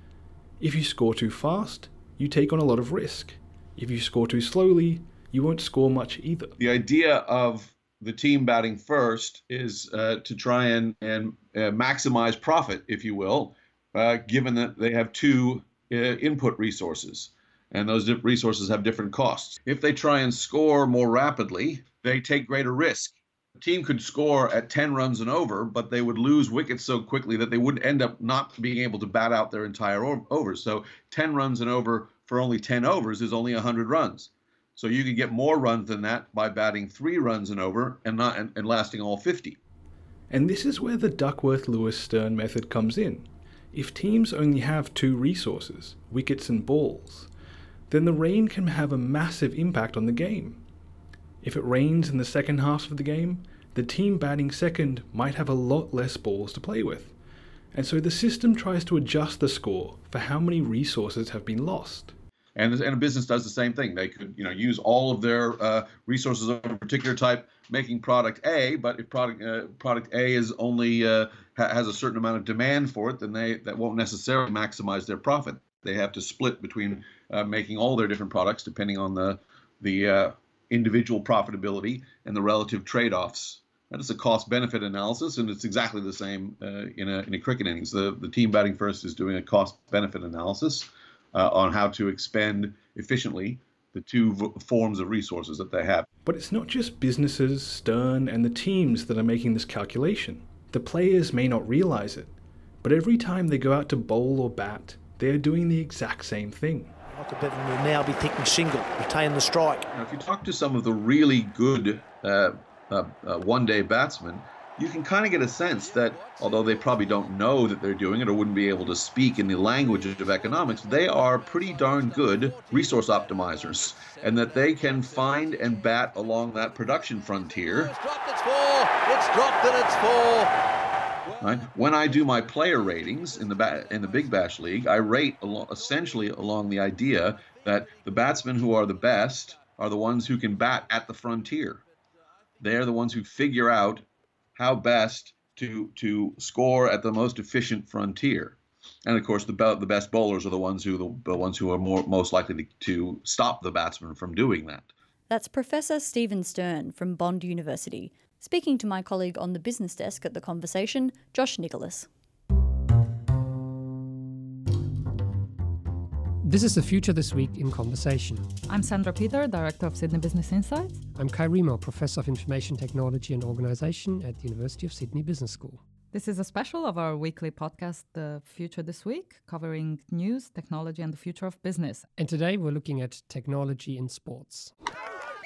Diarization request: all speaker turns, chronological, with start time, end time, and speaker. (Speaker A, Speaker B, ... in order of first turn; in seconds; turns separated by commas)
Speaker A: 0.6-6.5, Speaker B: 6.6-39.6, Speaker A: 40.3-47.3, Speaker A: 47.9-50.6, Speaker A: 51.4-57.2, Speaker A: 57.7-62.1, Speaker B: 62.6-96.1, Speaker A: 96.2-107.0, Speaker C: 107.1-109.9, Speaker B: 109.9-127.9, Speaker D: 115.6-117.3, Speaker D: 119.8-130.5, Speaker D: 131.3-134.3, Speaker B: 131.4-141.8, Speaker D: 138.0-139.1, Speaker B: 142.6-154.9, Speaker E: 155.3-162.1, Speaker F: 166.4-168.5, Speaker G: 168.7-171.0, Speaker F: 171.2-175.8, Speaker G: 176.1-182.1, Speaker F: 182.2-184.7